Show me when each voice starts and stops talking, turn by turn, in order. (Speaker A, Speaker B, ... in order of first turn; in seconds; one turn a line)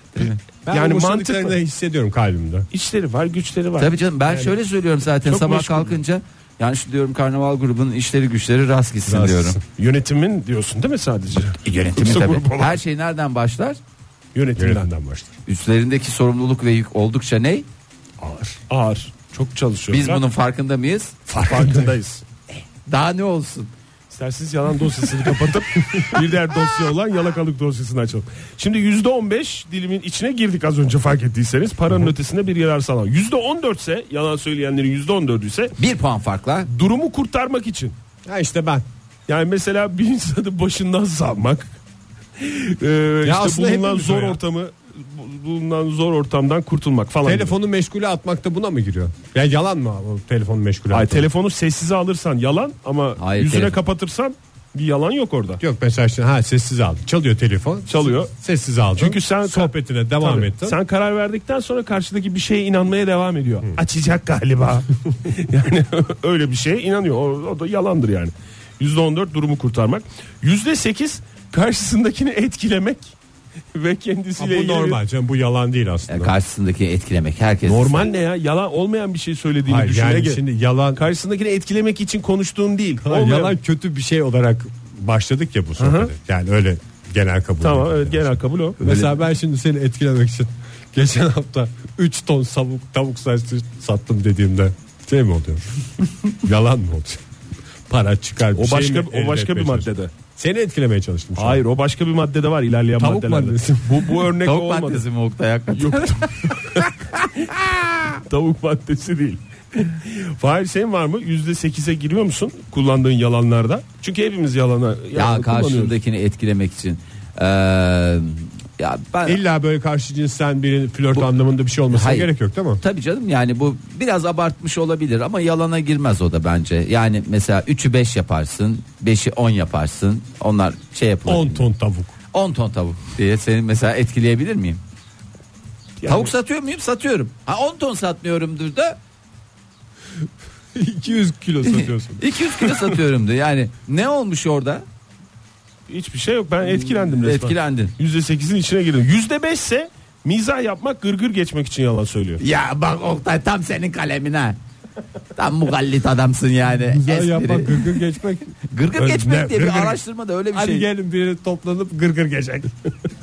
Speaker A: 0.7-2.7
Speaker B: 0.7-1.6
Speaker B: 2.7-3.9
Speaker C: 3.8-9.6
Speaker B: 5.2-6.0
Speaker A: 9.1-9.6
Speaker B: 9.8-12.8
Speaker C: 11.6-13.8
Speaker B: 14.3-14.9
Speaker A: 14.6-15.3
Speaker C: 15.4-17.6
Speaker A: 18.2-18.6
Speaker B: 18.7-20.2
Speaker C: 19.9-21.2
Speaker B: 21.3-22.2
Speaker A: 21.3-21.9
Speaker C: 22.6-23.7
Speaker B: 24.1-35.8
Speaker C: 35.8-36.7
Speaker B: 36.7-37.9
Speaker A: 38.2-38.8
Speaker B: 39.3-41.7
Speaker B: 42.4-47.5
Speaker A: 43.2-44.4
Speaker A: 47.2-51.3
Speaker B: 50.9-55.6
Speaker C: 53.2-53.8
Speaker A: 55.6-60.8
Speaker B: 57.9-58.3
Speaker B: 59.0-73.1
Speaker B: 73.7-75.0
Speaker A: 74.4-76.3
Speaker C: 76.1-78.0
Speaker B: 77.6-80.4
Speaker A: 79.7-81.0
Speaker B: 81.0-83.5
Speaker A: 83.0-95.7
Speaker B: 85.8-86.1
Speaker B: 87.6-89.1
Speaker A: 96.3-97.2
Speaker A: 97.9-101.6
Speaker B: 98.5-100.1
Speaker B: 101.4-105.0
Speaker A: 103.0-104.2
Speaker C: 104.4-106.6
Speaker B: 105.7-106.9
Speaker A: 107.6-108.2
Speaker B: 108.2-115.9
Speaker C: 115.1-119.4
Speaker A: 119.2-122.8
Speaker C: 121.9-131.7
Speaker A: 131.2-132.1
Speaker C: 132.3-134.8
Speaker B: 136.0-136.3
Speaker C: 136.1-139.0
Speaker A: 140.7-142.2
Speaker C: 141.7-144.8
Speaker B: 145.9-152.4
Speaker C: 146.6-147.9
Speaker C: 152.4-154.6
Speaker C: 155.3-158.0
Speaker A: 156.8-160.0
Speaker C: 158.7-160.9
Speaker A: 160.5-162.7